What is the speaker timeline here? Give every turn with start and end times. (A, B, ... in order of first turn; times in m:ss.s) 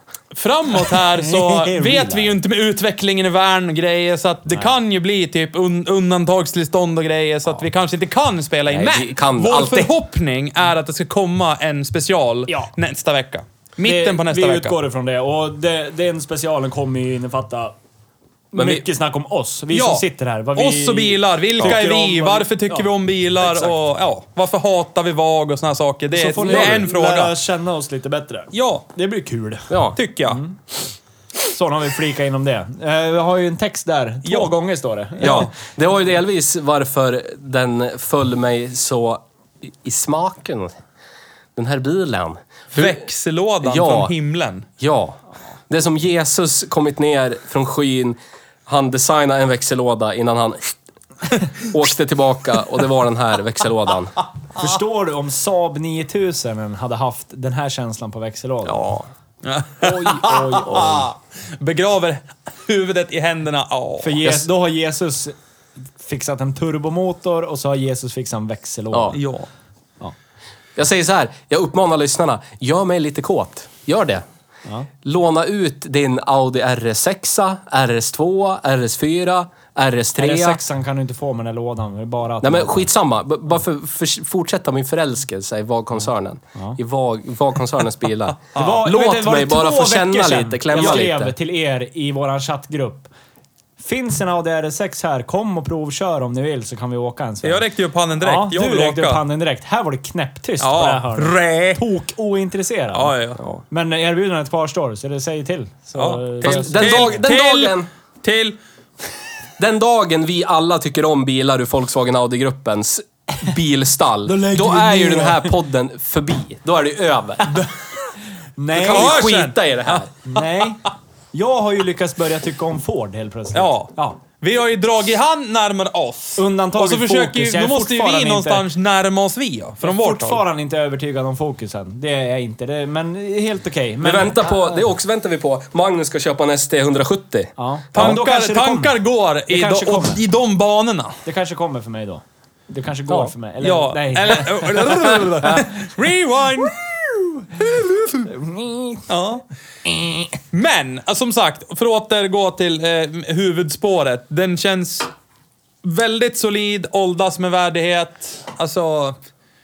0:00.3-0:14.7 A
0:01.0-0:02.4 B
0:08.7-0:09.9 C
0:13.8-0:17.7 B
0:18.5-0:23.8 B
0:18.5-0:18.8 C
0:19.7-0:27.3 A
0:26.1-0:30.6 B
0:26.5-0:26.8 C
0:28.5-0:28.8 A
0:29.7-0:30.0 C
0:30.0-0:30.4 A
0:31.4-0:35.5 B
0:34.2-0:34.5 A
0:35.2-0:35.5 A
0:35.2-0:40.7 C
0:41.6-0:43.0 C
0:42.7-0:44.7 A
0:43.6-0:44.1 C
0:44.8-0:50.7 C
0:51.6-0:54.1 C
0:54.6-0:58.8 B
0:58.6-0:59.1 C
0:59.4-1:04.4 A
0:59.8-1:01.0 B
1:00.7-1:01.0 C
1:04.0-1:05.3 B
1:06.0-1:09.2 B
1:09.1-1:09.5 A
1:10.8-1:14.2 C
1:15.0-1:20.6 C
1:20.2-1:22.9 B
1:22.4-1:31.3 C
1:28.5-1:33.1 B
1:30.8-1:31.1 A
1:33.8-1:37.6 B
1:37.4-1:39.2 A
1:38.2-1:43.2 B
1:40.6-1:41.8 A
1:42.9-1:43.4 A
1:43.7-1:47.2 B
1:46.0-1:48.6 A
1:46.4-1:47.9 C
1:49.6-1:57.6 C
1:54.2-1:55.5 B
1:58.6-1:59.2 B
1:58.7-2:00.1 C
1:58.8-2:00.0 A
2:00.3-2:04.2 B
2:03.5-2:10.4 A
2:06.4-2:08.6 B
2:09.8-2:14.8 B
2:14.0-2:18.2 C
2:17.6-2:19.0 B
2:17.9-2:21.2 A
2:19.5-2:20.2 B
2:21.2-2:25.6 B
2:23.6-2:26.8 A
2:27.1-2:27.6 B
2:27.6-2:28.3 A
2:28.2-2:29.1 B
2:29.1-2:29.4 A
2:29.8-2:30.3 B
2:30.5-2:35.1 A
2:35.8-2:39.2 A